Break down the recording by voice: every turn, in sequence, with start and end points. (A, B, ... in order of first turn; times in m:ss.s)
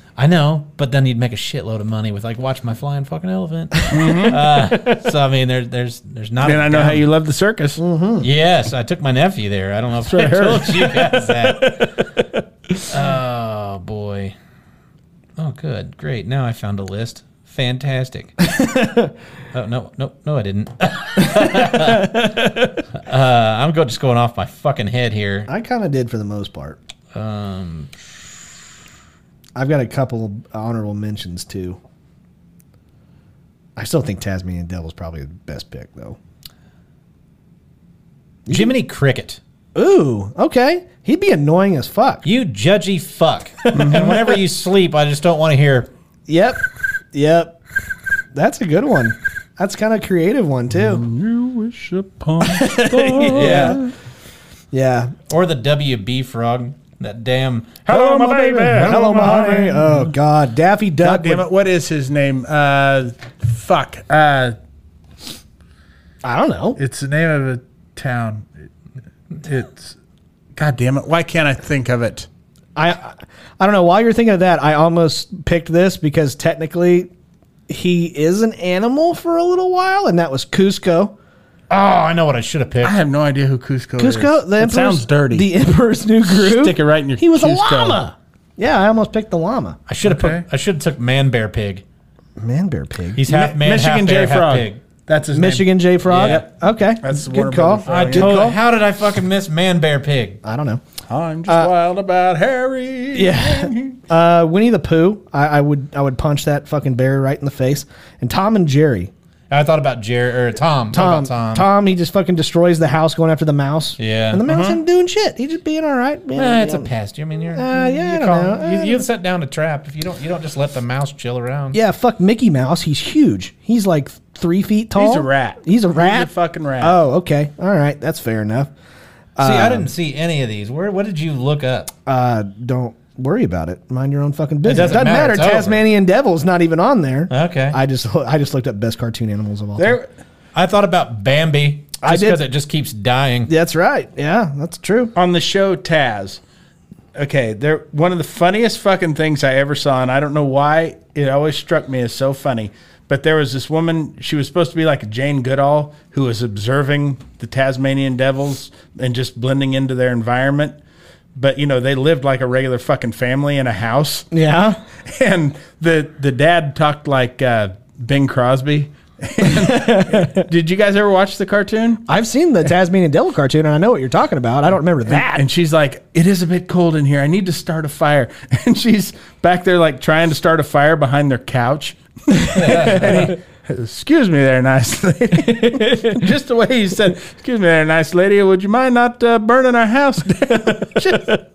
0:00.2-0:07.0 A
0:03.9-0:04.4 B
0:04.2-0:04.9 C
0:06.4-0:07.8 B
0:07.8-0:08.3 C
0:08.2-0:11.9 A
0:10.0-0:11.0 B
0:12.8-0:14.4 A
0:15.4-0:18.4 A
0:18.5-0:19.1 C
0:19.5-0:22.2 A
0:21.3-0:22.6 C
0:23.0-0:25.5 A
0:25.5-0:26.8 C
0:27.1-0:28.1 A
0:29.6-0:31.8 C
0:33.8-0:36.2 C
0:38.5-0:38.8 C
0:38.5-0:39.4 A
0:39.8-0:42.2 C
0:42.2-0:45.9 A
0:43.7-0:44.3 C
0:43.7-0:44.2 B
0:46.3-0:47.6 C
0:48.3-0:51.0 C
0:50.7-0:53.9 B
0:52.4-0:53.9 C
0:53.3-0:53.8 A
0:54.7-0:55.1 C
0:55.3-0:59.1 A
0:57.9-1:00.1 B
0:57.9-1:01.4 C
1:01.0-1:04.6 B
1:06.2-1:06.8 C
1:06.8-1:08.7 B
1:09.4-1:10.0 B
1:10.6-1:12.3 B
1:12.8-1:17.1 C
1:17.7-1:21.1 C
1:21.7-1:23.0 A
1:22.8-1:25.5 B
1:24.0-1:29.8 C
1:26.3-1:28.0 B
1:29.9-1:31.8 A
1:30.0-1:30.4 B
1:32.4-1:33.2 C
1:33.2-1:34.8 A
1:33.3-1:36.5 B
1:35.3-1:38.6 C
1:36.0-1:36.4 A
1:37.0-1:38.4 B
1:37.9-1:40.4 A
1:40.4-1:40.8 C
1:41.1-1:44.0 B
1:43.1-1:49.1 C
1:49.5-1:51.7 A
1:50.9-1:56.9 C
1:54.0-1:54.4 A
1:54.5-1:54.8 B
1:56.4-2:01.8 A
1:57.6-1:59.1 C
2:01.7-2:06.3 C
2:05.0-2:07.0 B
2:06.8-2:08.7 C
2:09.4-2:09.9 C
2:09.4-2:11.9 A
2:12.1-2:20.0 C
2:14.6-2:15.8 A
2:17.3-2:17.8 A
2:19.8-2:20.1 B
2:20.5-2:23.5 A
2:22.0-2:22.4 C
2:23.5-2:25.1 C
2:25.2-2:26.4 B
2:27.2-2:40.8 B
2:41.4-2:44.3 B
2:44.3-2:44.8 C
2:45.0-2:52.0 B
2:49.4-2:50.5 C
2:52.1-2:55.4 C
2:55.1-3:11.4 B
3:02.4-3:03.4 C
3:05.4-3:06.2 C